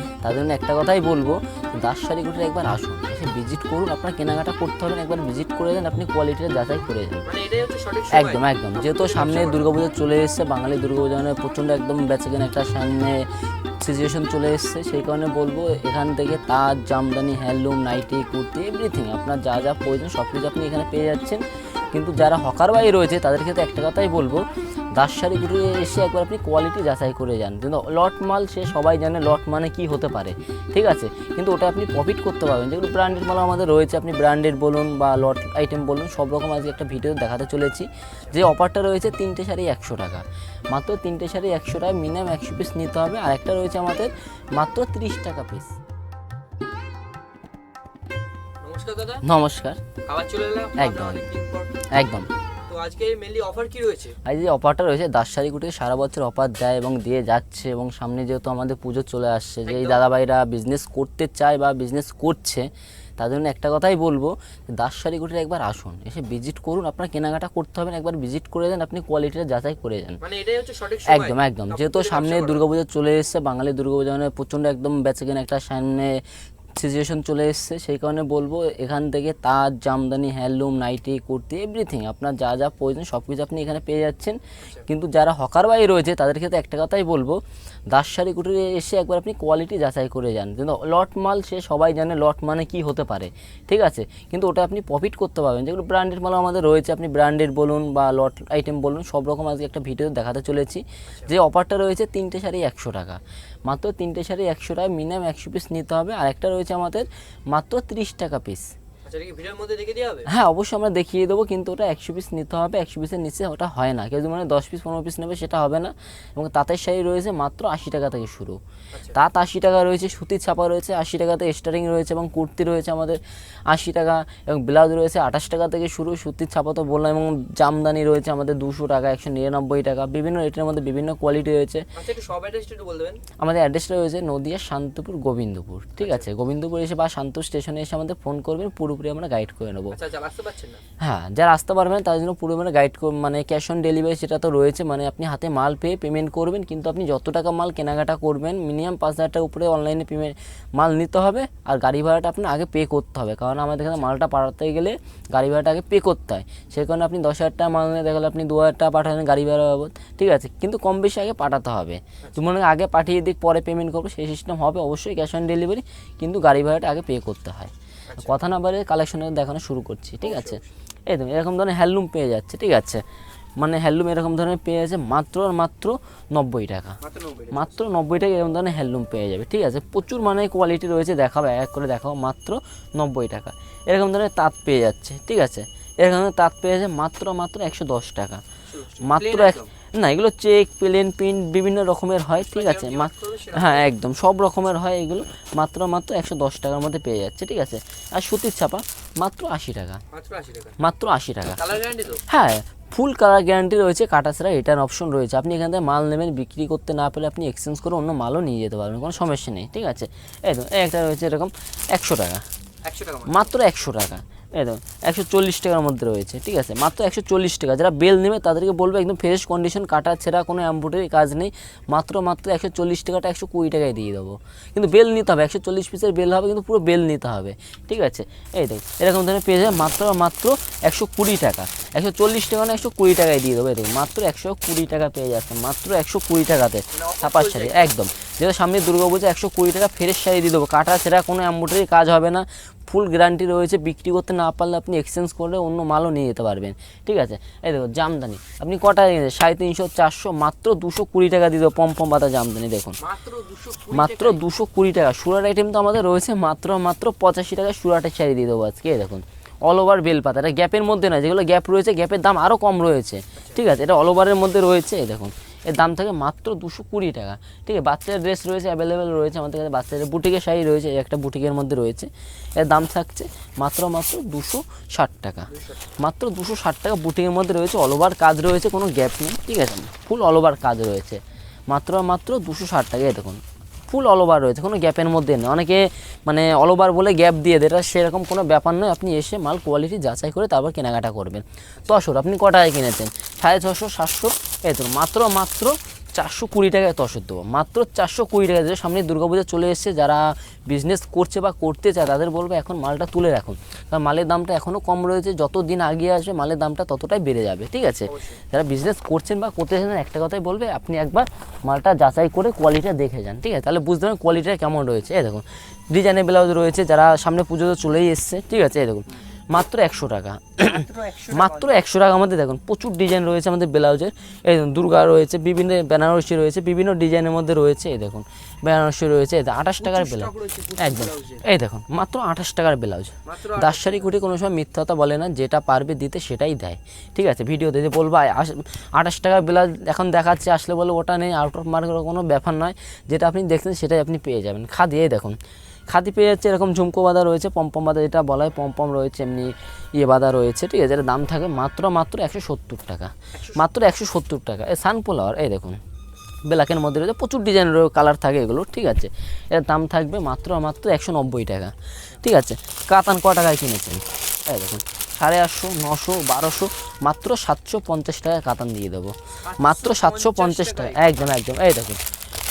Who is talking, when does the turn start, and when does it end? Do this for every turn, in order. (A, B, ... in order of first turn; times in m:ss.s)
0:00.2-0:07.3 A
0:07.2-0:09.7 B
0:08.1-0:13.2 A
0:13.8-0:21.4 A
0:21.9-0:24.4 A
0:25.0-0:45.7 A
0:48.6-0:49.2 B
0:49.2-0:49.8 A
0:50.0-0:51.7 B
0:50.8-0:51.2 A
0:51.9-0:52.3 A
0:52.7-0:54.2 B
0:54.2-1:02.7 A
0:59.6-1:00.0 B
1:03.2-1:10.2 A
1:10.2-1:12.6 B
1:11.1-1:16.1 A
1:16.8-1:27.4 A
1:27.9-1:48.7 A
1:49.0-1:50.3 B
1:50.2-1:58.6 A
1:59.1-2:11.8 A
2:11.9-2:13.2 B
2:13.4-2:20.0 A
2:16.0-2:16.3 B
2:19.9-2:20.8 B
2:21.0-2:53.0 A
2:48.1-2:48.4 B
2:50.2-2:50.6 B
2:53.6-2:57.0 A
2:57.0-2:57.8 B
2:57.5-3:08.4 A
3:08.7-3:09.7 B
3:09.0-3:20.0 A
3:12.4-3:13.9 B
3:20.1-3:20.8 B
3:20.8-3:21.6 A
3:21.6-3:22.2 B
3:22.3-3:32.4 A
3:32.8-3:33.5 B
3:33.3-4:13.0 A
3:56.9-3:57.9 B
4:13.0-4:14.4 B
4:13.9-5:45.4 A
4:23.4-4:23.6 B
4:35.5-4:35.9 B
5:08.1-5:08.4 B
5:20.6-5:21.8 B
5:29.8-5:31.4 B
5:33.2-5:34.1 B
5:45.9-5:55.8 A
5:53.3-5:53.7 B
5:56.5-6:12.0 A
6:09.4-6:11.2 B